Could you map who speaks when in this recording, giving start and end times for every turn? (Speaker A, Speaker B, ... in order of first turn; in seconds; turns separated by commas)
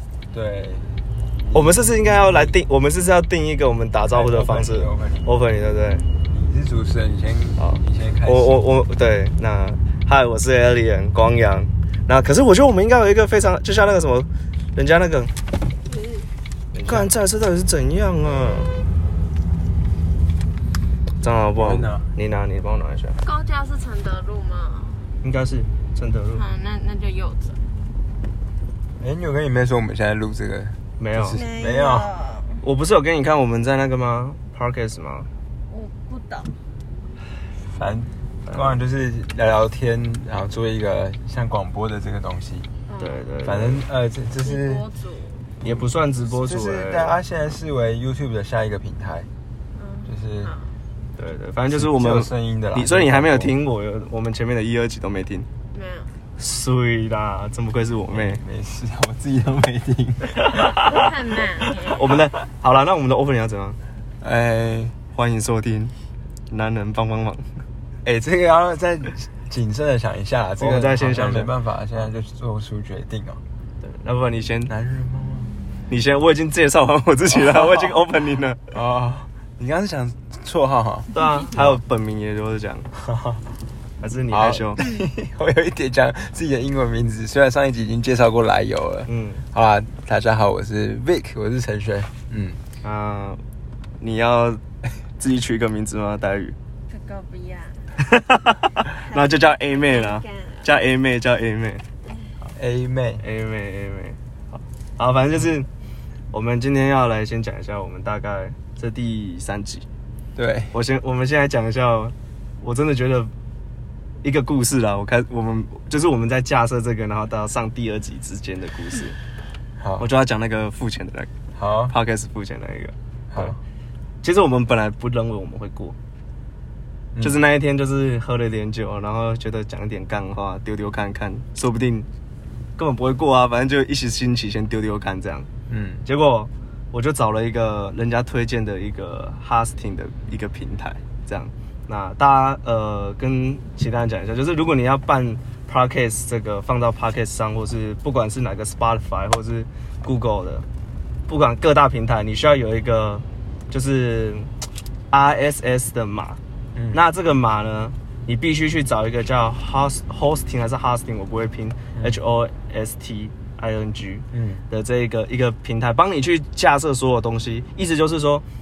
Speaker A: 0.3-2.6, Speaker B: 1.5-6.0, Speaker A: 4.1-5.3, Speaker A: 6.3-8.6, Speaker B: 7.6-15.3, Speaker C: 15.9-16.3, Speaker B: 16.7-18.8, Speaker A: 16.9-17.1, Speaker B: 21.2-23.2, Speaker A: 21.6-22.1, Speaker C: 23.2-25.1, Speaker B: 25.2-26.4, Speaker C: 26.4-27.6, Speaker A: 29.0-32.1, Speaker B: 31.0-31.4, Speaker C: 31.3-32.6, Speaker B: 32.6-35.3, Speaker C: 35.7-36.5, Speaker A: 37.7-42.7, Speaker B: 38.5-38.8, Speaker C: 42.9-43.3, Speaker B: 43.0-43.8, Speaker A: 43.4-44.9, Speaker C: 44.4-45.5, Speaker B: 45.6-47.2, Speaker A: 46.3-49.3, Speaker C: 49.8-50.7, Speaker A: 50.1-50.5, Speaker B: 51.2-55.5, Speaker A: 51.7-53.5, Speaker C: 55.7-56.1, Speaker B: 56.4-58.4, Speaker A: 58.1-61.1, Speaker B: 60.4-61.1, Speaker C: 60.8-62.1, Speaker B: 61.8-63.8, Speaker A: 64.2-65.0, Speaker B: 65.1-65.9, Speaker B: 66.5-67.5, Speaker A: 68.0-73.4, Speaker B: 70.6-71.5, Speaker B: 73.9-74.7, Speaker A: 74.7-75.5, Speaker B: 75.9-78.7, Speaker A: 77.3-78.0, Speaker A: 78.7-81.8, Speaker B: 81.1-82.9, Speaker A: 82.9-83.4, Speaker B: 84.0-84.9, Speaker A: 84.3-92.6, Speaker B: 89.1-89.4, Speaker B: 92.8-93.4, Speaker B: 94.0-94.6, Speaker B: 95.2-96.6, Speaker C: 96.9-97.8, Speaker B: 98.0-101.8, Speaker C: 98.9-100.7, Speaker A: 102.5-103.2, Speaker B: 103.2-105.7, Speaker B: 106.3-109.9, Speaker A: 110.3-110.7, Speaker B: 110.7-113.3, Speaker B: 114.2-119.2, Speaker A: 119.8-120.0, Speaker B: 120.0-121.3, Speaker A: 121.5-121.9, Speaker B: 121.9-123.6, Speaker A: 123.3-123.6, Speaker B: 124.2-126.0, Speaker B: 127.2-132.1, Speaker B: 132.8-135.5, Speaker A: 135.7-136.0, Speaker B: 136.0-150.7, Speaker B: 151.3-154.5, Speaker B: 155.1-156.4, Speaker B: 156.9-168.4, Speaker A: 164.3-164.6